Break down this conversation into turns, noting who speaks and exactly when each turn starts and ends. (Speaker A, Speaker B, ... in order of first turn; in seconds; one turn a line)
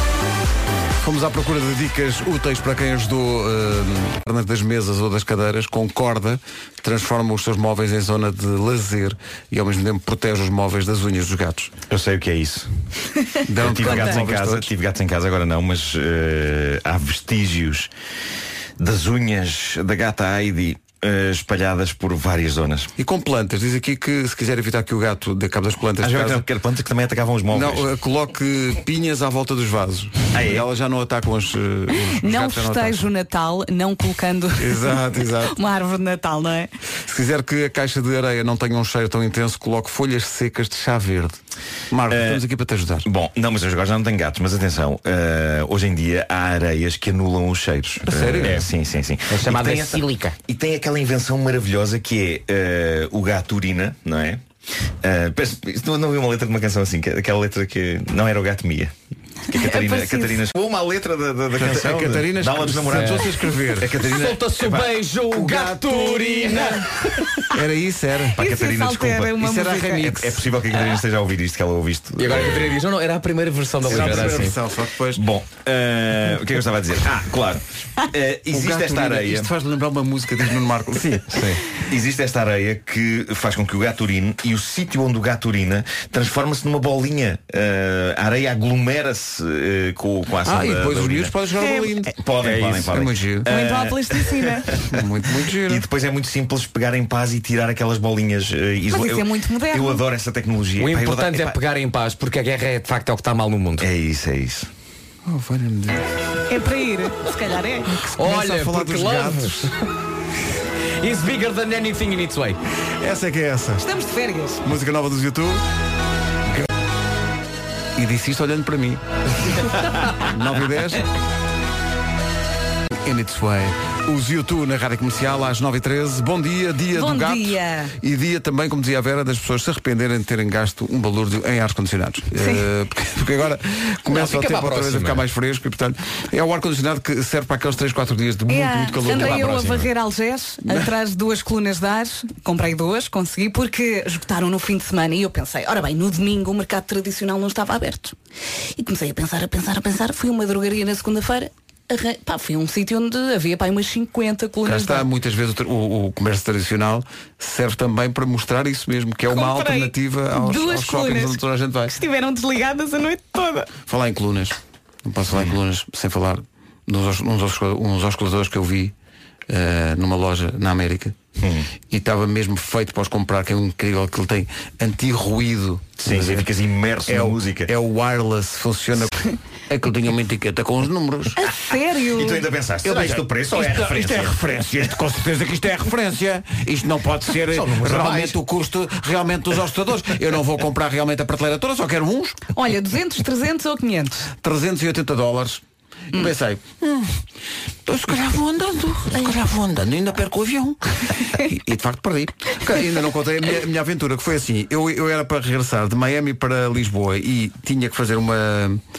Speaker A: 1.0-11.8
Speaker B: 11.9-12.7
Speaker A: 13.4-14.7
Speaker B: 13.6-17.9
Speaker C: 13.8-14.1
Speaker B: 18.8-22.9
Speaker A: 23.0-26.4
Speaker B: 26.0-27.9
Speaker A: 27.5-33.1
Speaker B: 30.3-30.6
Speaker C: 31.9-36.7
Speaker A: 34.6-35.6
Speaker A: 37.0-41.4
Speaker A: 41.9-43.1
Speaker B: 42.1-42.4
Speaker B: 43.0-54.4
Speaker A: 48.0-48.7
Speaker D: 49.3-50.3
Speaker B: 55.0-58.9
Speaker C: 59.5-60.4
Speaker B: 59.5-64.9
Speaker A: 61.5-64.1
Speaker D: 62.9-63.2
Speaker D: 63.9-67.4
Speaker A: 65.3-66.8
Speaker A: 67.5-68.4
Speaker B: 68.4-69.4
Speaker C: 68.4-70.1
Speaker A: 69.3-70.5
Speaker B: 70.0-72.8
Speaker D: 72.2-74.5
Speaker A: 73.8-75.2
Speaker B: 73.9-74.5
Speaker B: 75.1-79.5
Speaker A: 78.5-81.5
Speaker D: 81.3-81.6
Speaker B: 81.8-91.3
Speaker A: 90.4-92.2
Speaker C: 91.6-91.9
Speaker B: 92.1-95.0
Speaker D: 92.4-92.9
Speaker A: 92.8-93.5
Speaker C: 93.5-94.7
Speaker A: 94.8-95.8
Speaker B: 95.6-101.6
Speaker C: 98.9-100.0
Speaker D: 100.8-103.9
Speaker B: 103.8-104.7
Speaker A: 105.2-106.1
Speaker C: 106.5-107.9
Speaker A: 107.8-109.7
Speaker D: 108.2-109.8
Speaker D: 111.0-112.6
Speaker A: 113.0-113.9
Speaker C: 113.8-114.6
Speaker A: 114.6-115.6
Speaker A: 118.0-119.0
Speaker A: 120.2-121.1
Speaker A: 123.0-139.8
Speaker C: 126.9-127.9
Speaker C: 132.4-132.7
Speaker D: 134.1-135.2
Speaker C: 138.5-148.2
Speaker D: 139.0-139.8
Speaker C: 148.8-155.1
Speaker A: 154.6-161.9
Speaker C: 159.3-161.4
Speaker C: 161.9-163.7
Speaker A: 163.8-168.9
Speaker A: 169.5-171.2
Speaker B: 171.4-171.7
Speaker A: 171.9-176.5
Speaker B: 176.0-177.7
Speaker A: 177.1-181.5
Speaker C: 181.4-182.4
Speaker B: 182.0-184.4
Speaker A: 182.8-192.4
Speaker B: 187.7-188.3
Speaker C: 192.5-194.3
Speaker A: 194.4-197.2
Speaker A: 197.8-208.8